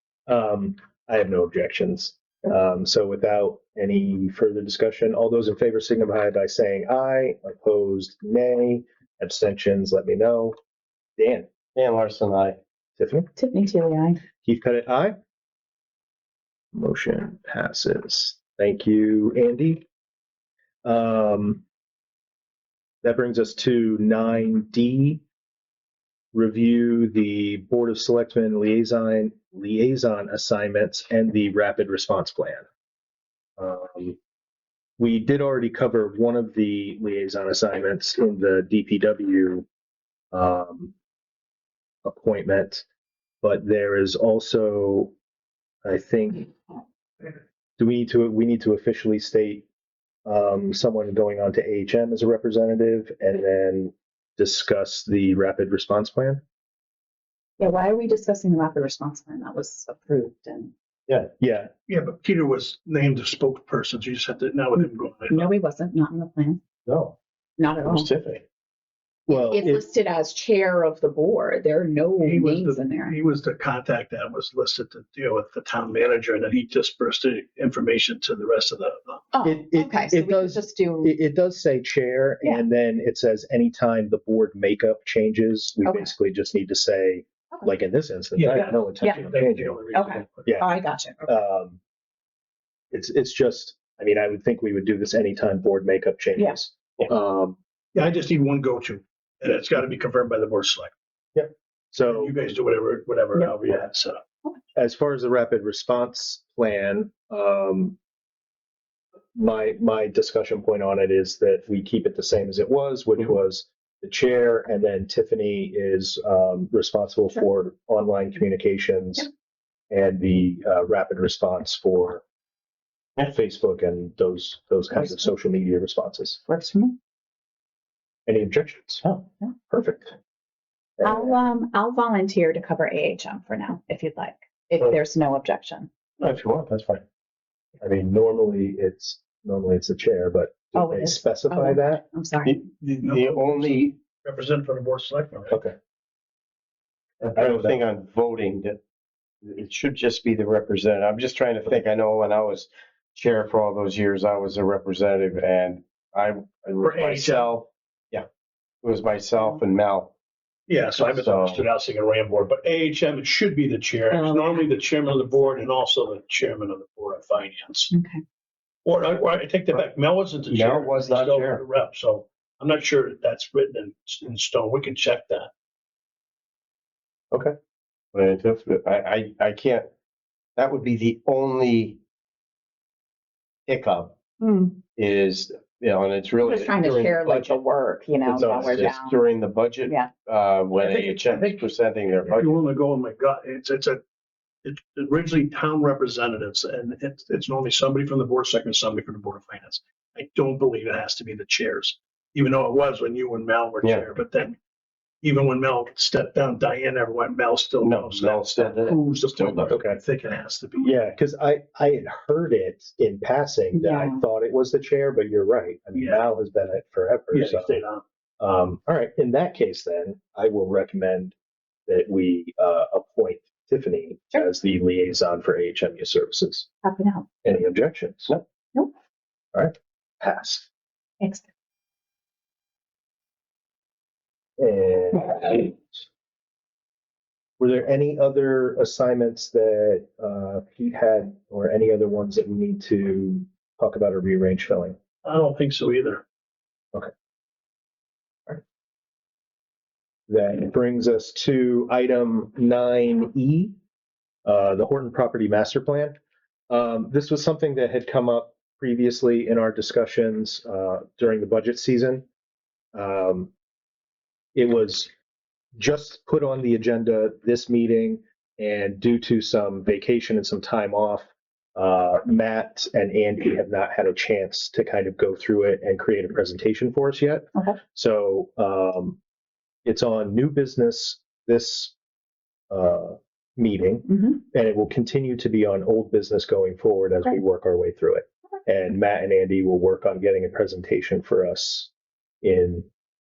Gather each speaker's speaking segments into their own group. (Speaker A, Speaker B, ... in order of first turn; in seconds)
Speaker A: 0.3-10.5, 11.2-11.5, 13.0-13.3, 14.4-15.2, 16.7-19.8, 20.8-21.6, 23.0-25.2, 26.3-32.6, 33.6-34.2, 35.0-39.7, 40.3-40.9, 42.0-42.9, 43.4-45.1, 45.8-49.6, 50.2-56.4, 61.4-61.7, 69.3-69.8, 79.4-89.8, 90.4-91.8, 92.9-97.6, 101.3-102.3, 104.7-108.0, 109.3-119.3, 119.9-122.2, 123.2-126.4, 128.3-129.1, 129.7-130.1, 131.0-131.4, 136.2-137.0, 137.8-142.0, 145.5-145.8, 147.3-147.8, 188.3-188.8, 209.7-210.0, 210.8-217.8, 218.4-221.3, 221.9-226.7, 227.4-228.3, 229.5-230.7, 234.6-236.0, 237.6-245.0, 250.3-253.8, 254.4-256.2, 256.7-262.2, 262.9-263.5, 264.5-265.1, 265.8-279.2, 279.8-281.9, 282.7-292.9
Speaker B: 11.7-12.6, 66.9-67.1, 67.8-68.4, 142.4-143.9, 147.2-148.8, 149.4-158.3, 158.8-160.1, 161.0-161.6, 170.5-171.6, 177.3-177.6, 178.1-179.9, 180.6-182.0, 183.7-184.1, 184.9-187.6, 188.3-192.6, 203.8-204.1, 207.8-209.8
Speaker C: 13.3-14.2, 57.6-60.7, 64.8-66.6, 67.6-68.1, 69.3-73.2, 79.3-81.1, 85.8-86.1, 89.9-91.3, 125.0-125.2, 126.5-127.0, 131.0-135.9, 140.7-142.6, 164.1-165.6, 167.9-168.2, 184.4-184.7, 186.4-189.2, 189.8-190.1, 213.7-214.2, 226.8-227.3, 231.2-231.5, 277.5-277.8, 284.1-284.4
Speaker D: 61.9-65.5, 72.2-79.2, 88.3-90.5, 97.9-100.9, 102.0-104.2, 142.8-145.6, 156.8-157.6, 160.7-167.9, 168.8-175.5, 190.8-194.0, 194.6-204.6, 205.2-211.0, 215.9-216.2, 217.3-218.0, 245.2-246.2